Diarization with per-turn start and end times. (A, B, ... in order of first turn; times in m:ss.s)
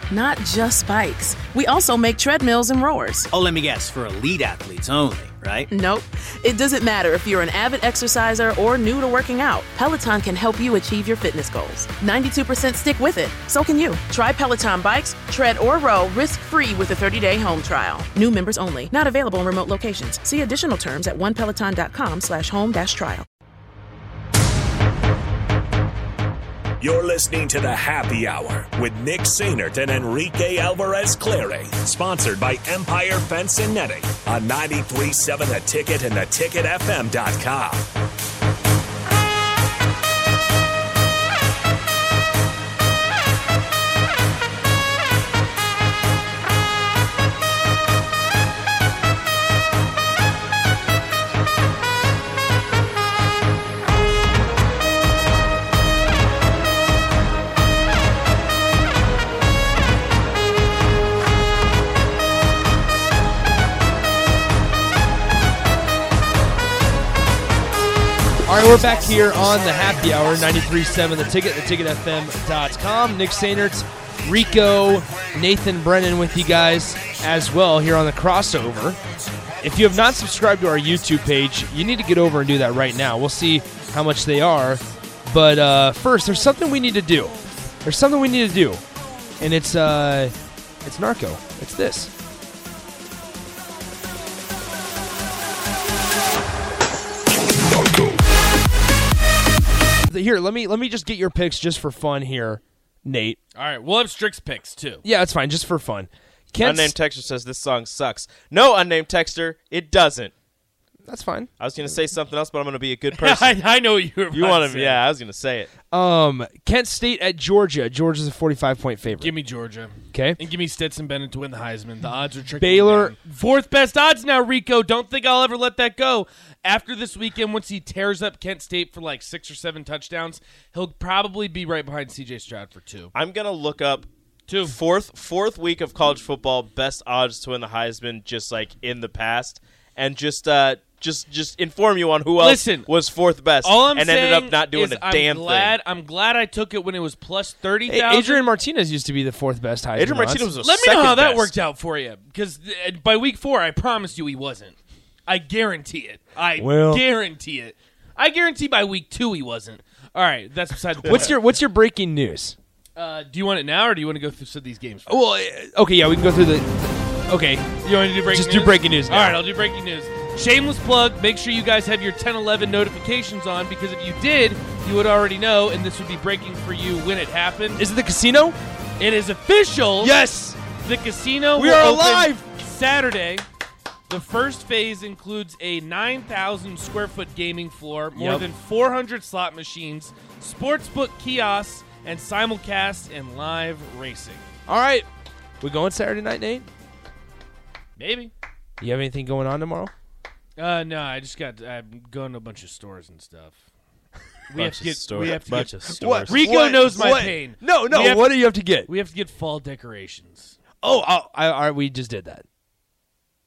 0:00.1-0:03.3 A
0:03.3-0:05.7 B
0:05.7-0:23.3 A
0:26.8-0:37.9 C
1:08.5-1:19.0 D
1:19.6-1:28.8 D
1:29.4-1:30.3 D
1:30.8-1:32.1 D
1:40.1-1:43.4 D
1:43.6-1:45.0 E
1:45.0-1:47.0 D
1:46.6-1:50.3 F
1:51.1-1:51.8 D
1:51.6-1:53.6 F
1:53.1-1:55.1 E
1:54.3-1:55.7 F
1:55.9-1:59.3 D
1:59.2-2:13.1 E
2:00.1-2:00.4 D
2:02.6-2:03.2 D
2:13.1-2:14.1 F
2:14.5-2:14.8 E
2:14.6-2:25.8 F
2:22.4-2:22.9 E
2:23.6-2:28.5 E
2:27.9-2:30.5 D
2:30.0-2:31.5 F
2:30.6-2:41.4 E
2:36.6-2:37.1 D
2:41.0-2:42.6 D
2:43.0-2:45.2 E
2:45.1-2:49.4 D
2:47.8-2:57.9 E
2:57.8-2:58.6 D
2:59.0-3:00.2 E
3:00.0-3:00.6 D
3:00.8-3:03.5 E
3:01.6-3:02.4 D
3:04.1-3:14.5 E
3:08.2-3:08.5 D
3:14.7-3:15.1 D
3:15.6-3:16.7 D
3:18.0-3:18.3 E
3:18.8-3:19.9 D
3:20.6-3:23.6 E
3:24.5-3:30.6 E
3:24.6-3:26.6 F
3:25.5-3:28.9 D
3:30.8-3:32.4 D